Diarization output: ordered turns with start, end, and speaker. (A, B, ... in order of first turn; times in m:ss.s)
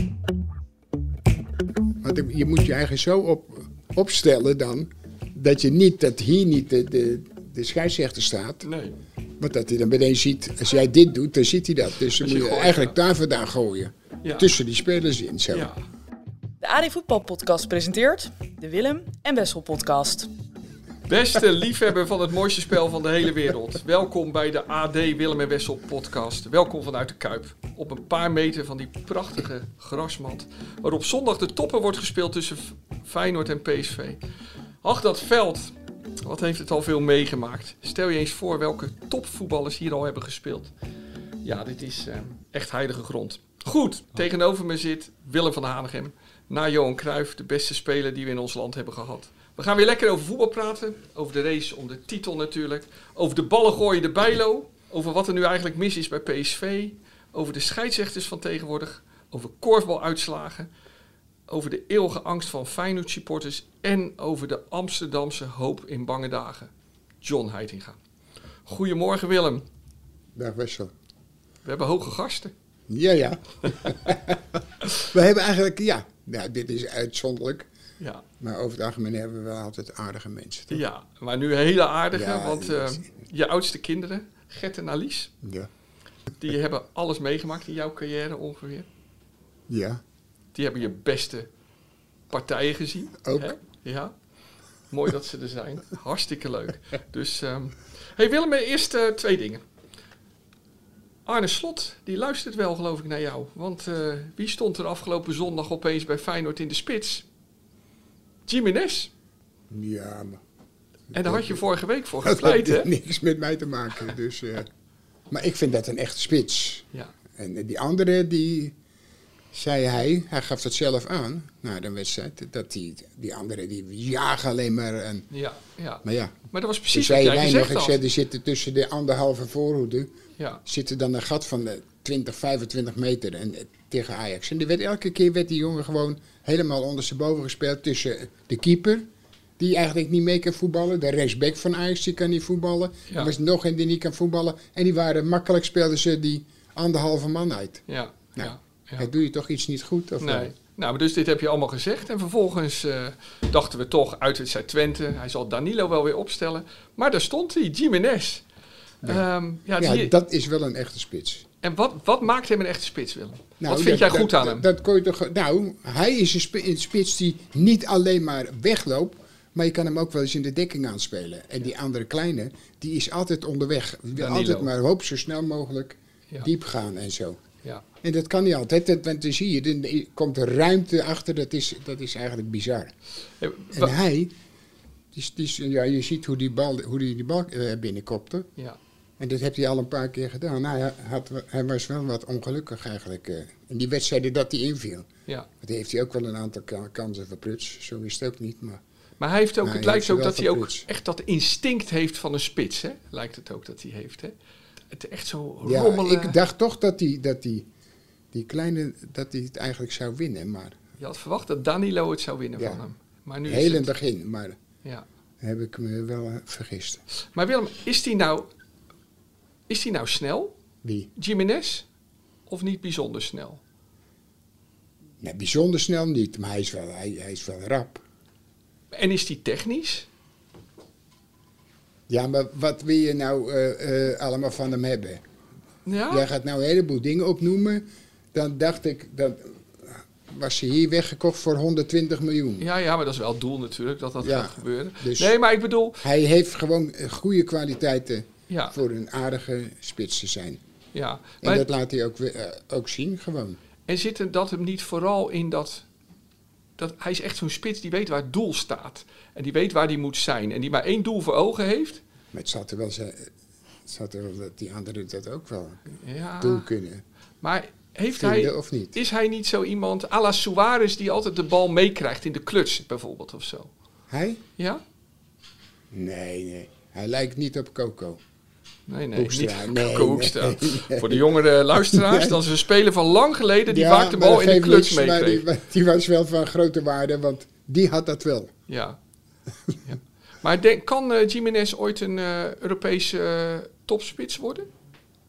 0:02.0-0:08.7 A
0:08.6-0:09.0 B
0:09.4-0:15.7 A
0:12.2-0:13.0 B
0:14.2-0:14.5 B
0:15.5-0:15.8 B
0:16.6-0:20.3 C
0:21.1-0:34.2 B
0:34.8-0:40.7 B
0:41.4-1:00.7 B
1:01.5-1:06.7 B
1:07.2-1:08.0 B
1:08.6-1:09.6 B
1:10.3-1:10.9 A
1:11.6-1:12.5 B
1:12.9-1:17.7 A
1:18.4-1:20.8 A
1:20.7-1:25.3 B
1:22.1-1:23.1 A
1:25.4-1:25.7 A
1:26.4-1:28.9 B
1:29.7-1:30.0 A
1:30.5-1:31.5 B
1:32.3-1:34.1 B
1:33.2-1:33.5 A
1:34.9-1:39.6 B
1:41.2-1:47.2 B
1:48.5-1:49.1 B
1:49.7-1:50.4 A
1:51.1-1:51.6 A
1:51.1-1:52.9 B
1:52.2-1:54.7 A
1:55.3-1:58.7 A
1:59.5-2:05.3 A
2:05.3-2:08.1 B
2:06.0-2:10.1 A
2:10.6-2:19.0 A
2:19.6-2:27.8 A
2:27.9-2:29.1 B
2:28.4-2:30.5 A
2:30.2-2:38.4 B
2:39.0-2:40.1 B
2:39.8-2:41.4 A
2:41.6-2:44.6 B
2:43.6-2:57.4 A
2:54.2-2:54.7 B
2:58.0-3:02.9 A
3:03.4-3:03.9 B
3:03.7-3:04.3 A
3:05.1-3:08.5 A
3:09.2-3:15.1 A
3:15.6-3:18.8 A
3:19.2-3:24.3 B
3:19.6-3:20.9 A
3:24.9-3:26.4 B
3:25.6-3:27.7 A
3:28.3-3:30.8 A
3:31.0-3:33.9 B
3:32.6-3:32.8 A
3:33.4-3:34.6 A
3:35.4-3:37.0 A
3:37.3-3:38.5 B
3:39.7-3:40.5 B
3:40.8-3:41.1 A
3:41.2-3:41.8 B
3:42.5-3:43.6 B
3:45.2-3:48.0 A
3:48.9-3:50.1 B
3:52.1-3:55.2 A
3:55.8-3:56.3 B
3:56.1-4:02.7 A
4:02.6-4:06.0 B
4:04.2-4:05.3 A
4:06.0-4:10.6 A
4:08.5-4:08.8 B
4:10.9-4:11.6 B
4:11.4-4:13.6 A
4:13.9-4:15.8 B
4:16.8-4:22.0 B
4:22.3-4:23.3 A
4:23.8-4:25.8 A
4:26.0-4:26.7 B
4:26.4-4:27.0 A
4:27.4-4:33.7 B
4:28.1-4:29.0 A
4:34.1-4:34.4 A
4:35.9-4:38.2 A
4:38.9-4:45.4 B
4:39.1-4:42.4 A
4:43.7-4:48.5 A
4:48.7-4:49.0 B
4:49.8-4:54.7 B